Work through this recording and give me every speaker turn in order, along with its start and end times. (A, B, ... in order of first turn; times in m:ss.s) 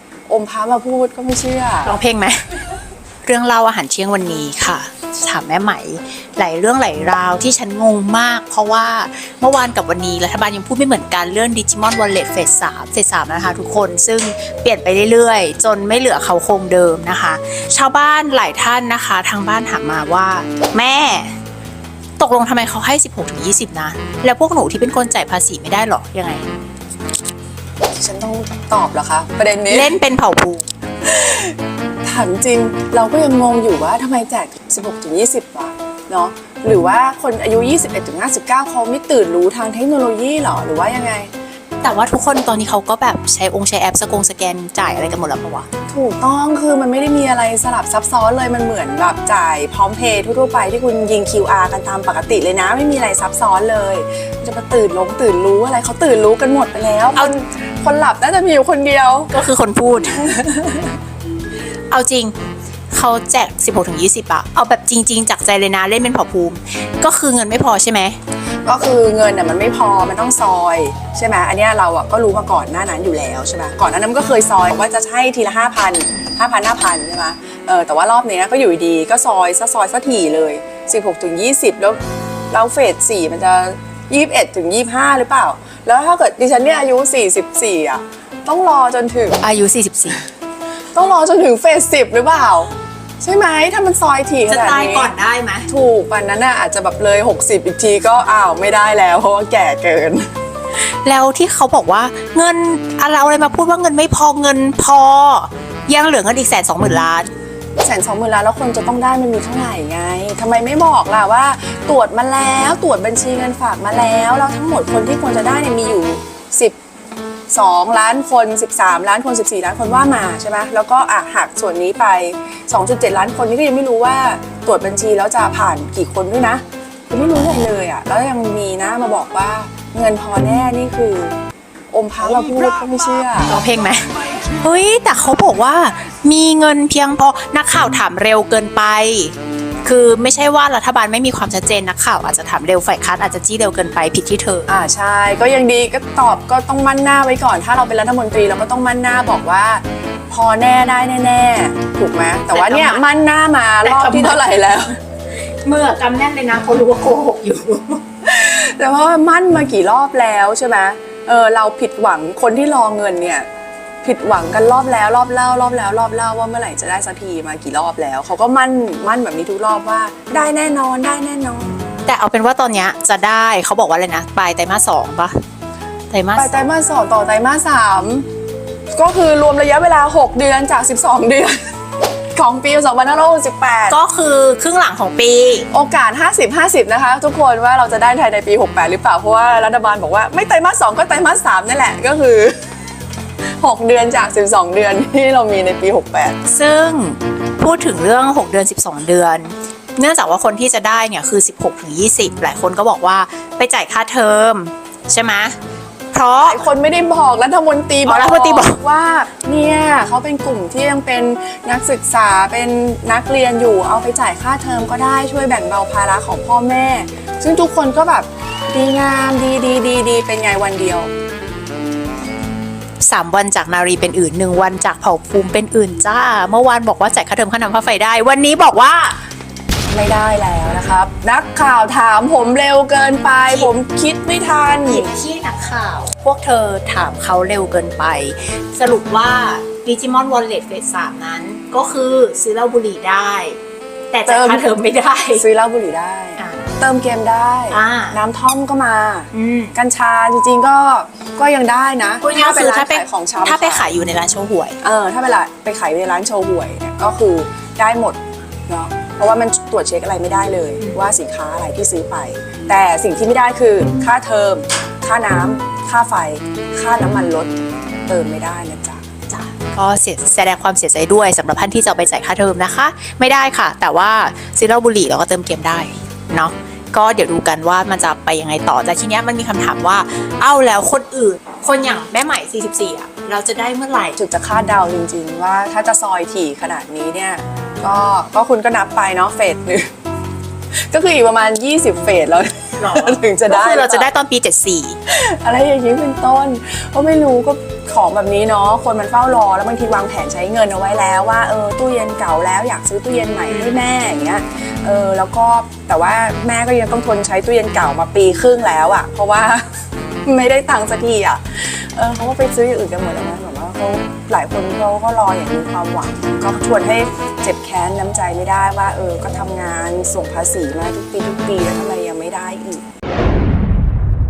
0:00.3-0:02.0 A
0:01.8-0:02.4 B
0:03.2-0:21.3 B
0:22.2-0:26.4 B
0:28.0-0:29.9 A
0:29.7-0:30.6 B
0:31.0-0:41.3 A
0:41.8-0:45.7 B
0:45.9-0:59.4 A
0:59.3-1:00.2 B
1:00.1-1:01.0 A
1:01.9-1:02.4 B
1:02.9-1:08.2 B
1:08.7-1:22.0 A
1:22.5-1:29.4 A
1:29.4-1:30.2 B
1:31.0-1:35.1 A
1:34.5-1:35.7 B
1:35.7-1:40.3 A
1:41.0-1:47.3 B
1:47.8-1:56.8 A
1:57.5-2:11.4 A
2:11.9-2:13.5 A
2:13.5-2:19.3 B
2:19.8-2:24.7 B
2:24.7-2:34.9 A
2:32.5-2:33.0 B
2:33.8-2:34.5 B
2:35.6-2:38.0 B
2:38.2-2:43.5 A
2:44.0-2:51.7 A
2:52.1-2:55.4 B
2:56.1-2:56.7 B
2:56.4-2:58.3 A
2:58.9-3:01.6 A
3:02.4-3:04.0 A
3:03.9-3:05.7 B
3:05.7-3:12.6 A
3:13.6-3:16.4 A
3:16.5-3:25.6 B
3:26.1-3:26.7 B
3:26.4-3:41.1 A
3:28.1-3:28.8 B
3:43.0-3:49.2 B
3:49.9-3:55.1 A
3:54.9-4:03.6 B
4:04.1-4:05.4 B
4:04.3-4:04.7 A
4:05.4-4:13.9 A
4:06.4-4:06.6 B
4:07.7-4:08.2 B
4:09.3-4:09.7 B
4:12.2-4:14.8 B
4:14.8-4:27.5 A
4:28.1-4:29.1 A
4:29.3-4:44.2 B
4:44.2-4:49.9 A
4:50.9-4:54.1 A
4:52.8-4:55.0 B
4:55.1-5:09.7 A
5:03.5-5:03.8 B
5:10.3-5:22.8 A